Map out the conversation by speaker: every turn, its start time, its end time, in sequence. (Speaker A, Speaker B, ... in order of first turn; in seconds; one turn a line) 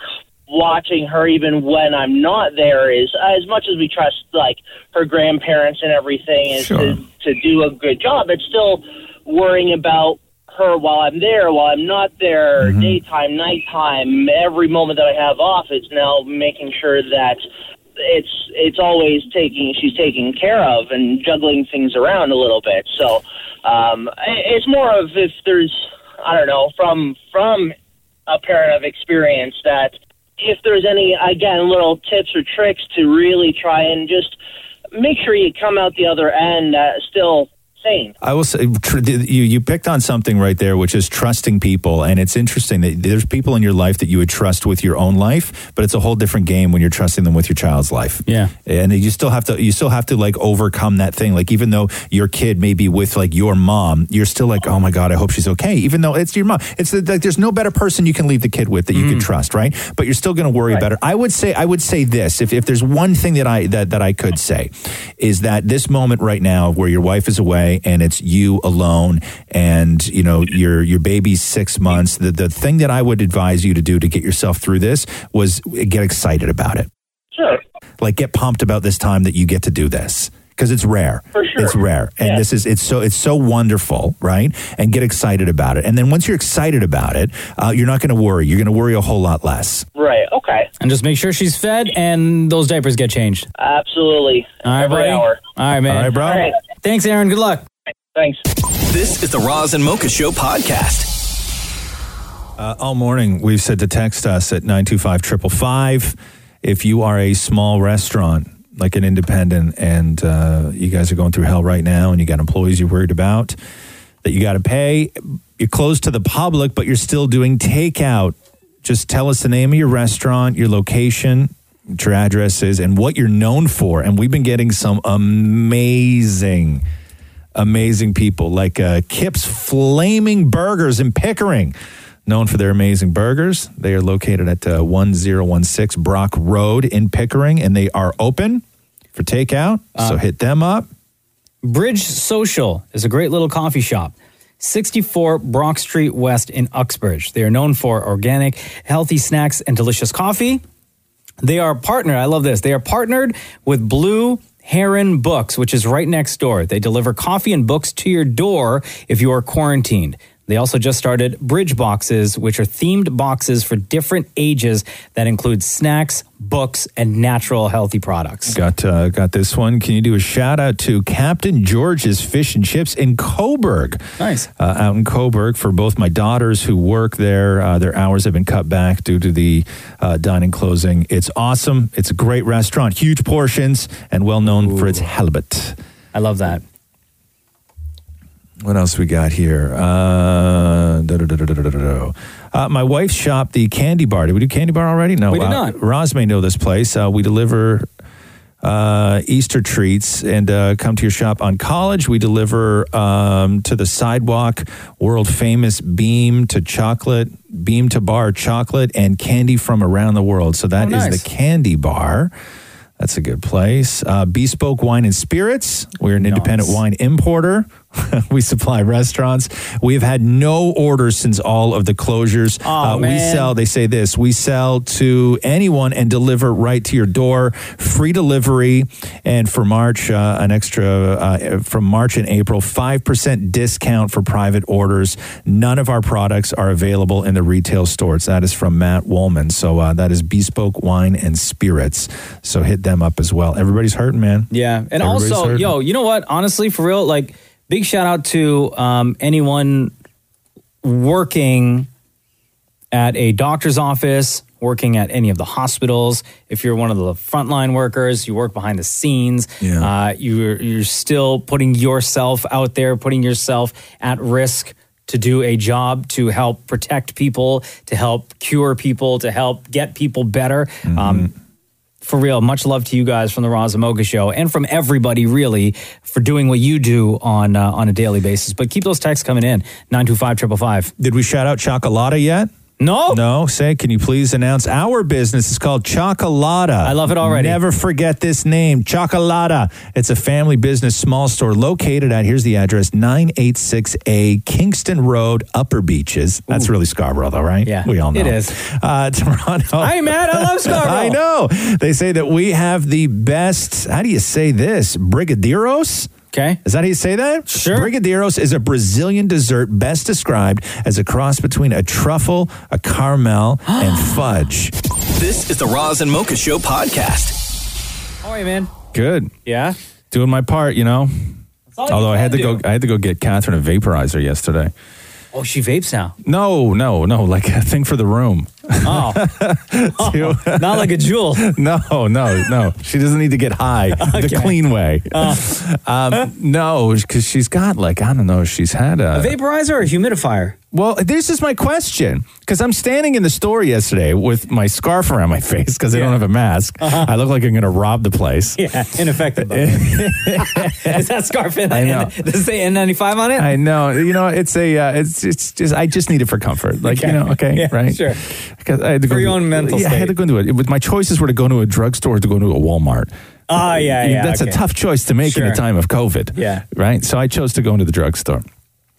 Speaker A: 0.5-17.4
Speaker B: 6.5-7.0
Speaker B: 12.6-13.0
Speaker A: 18.0-27.7
Speaker A: 28.3-34.4
Speaker A: 34.9-38.1
Speaker B: 38.2-76.9
Speaker C: 48.3-48.5
Speaker C: 58.9-59.3
Speaker A: 77.3-77.6
Speaker B: 78.0-89.8
Speaker A: 81.3-82.4
Speaker A: 89.9-90.7
Speaker C: 90.8-93.5
Speaker A: 93.6-95.4
Speaker C: 94.6-97.6
Speaker B: 95.9-96.4
Speaker A: 96.2-96.5
Speaker A: 98.2-98.4
Speaker D: 98.9-101.1
Speaker B: 102.6-113.5
Speaker B: 114.2-126.8
Speaker B: 127.5-131.7
Speaker B: 132.2-138.6
Speaker B: 139.1-140.9
Speaker C: 141.6-150.6
Speaker C: 151.4-168.6
Speaker B: 168.5-174.0
Speaker C: 174.2-174.5
Speaker B: 174.6-185.8
Speaker C: 184.5-185.0
Speaker C: 186.1-186.6
Speaker B: 188.6-197.9
Speaker C: 195.3-195.8
Speaker B: 198.6-212.3
Speaker C: 210.8-211.2
Speaker B: 213.0-245.7
Speaker C: 216.2-216.8
Speaker C: 222.6-223.5
Speaker C: 244.5-249.9
Speaker C: 250.8-251.9
Speaker C: 252.9-271.3
Speaker B: 259.6-259.9
Speaker B: 270.9-271.3
Speaker C: 272.0-280.9
Speaker B: 281.0-282.5
Speaker C: 282.8-283.2
Speaker B: 283.1-306.1
Speaker C: 286.8-287.6
Speaker C: 297.6-298.5
Speaker C: 299.8-301.2
Speaker C: 306.3-306.6
Speaker B: 306.6-314.7
Speaker C: 307.5-307.9
Speaker C: 313.7-314.2
Speaker D: 315.1-317.3
Speaker C: 318.2-318.7
Speaker B: 318.9-319.3
Speaker C: 319.4-319.8
Speaker B: 320.1-321.1
Speaker C: 321.7-322.6
Speaker B: 321.9-324.7
Speaker C: 325.3-326.1
Speaker B: 326.2-339.4
Speaker C: 328.8-329.3
Speaker C: 330.0-331.5
Speaker C: 334.0-334.6
Speaker C: 335.1-335.5
Speaker C: 339.1-340.6
Speaker B: 340.7-348.6
Speaker C: 345.9-346.2
Speaker C: 346.8-347.1
Speaker C: 348.6-353.5
Speaker B: 349.4-350.9
Speaker B: 351.7-352.1
Speaker B: 353.4-368.4
Speaker C: 356.8-358.2
Speaker C: 359.1-360.1
Speaker C: 363.5-364.6
Speaker C: 365.2-365.6
Speaker C: 366.3-366.6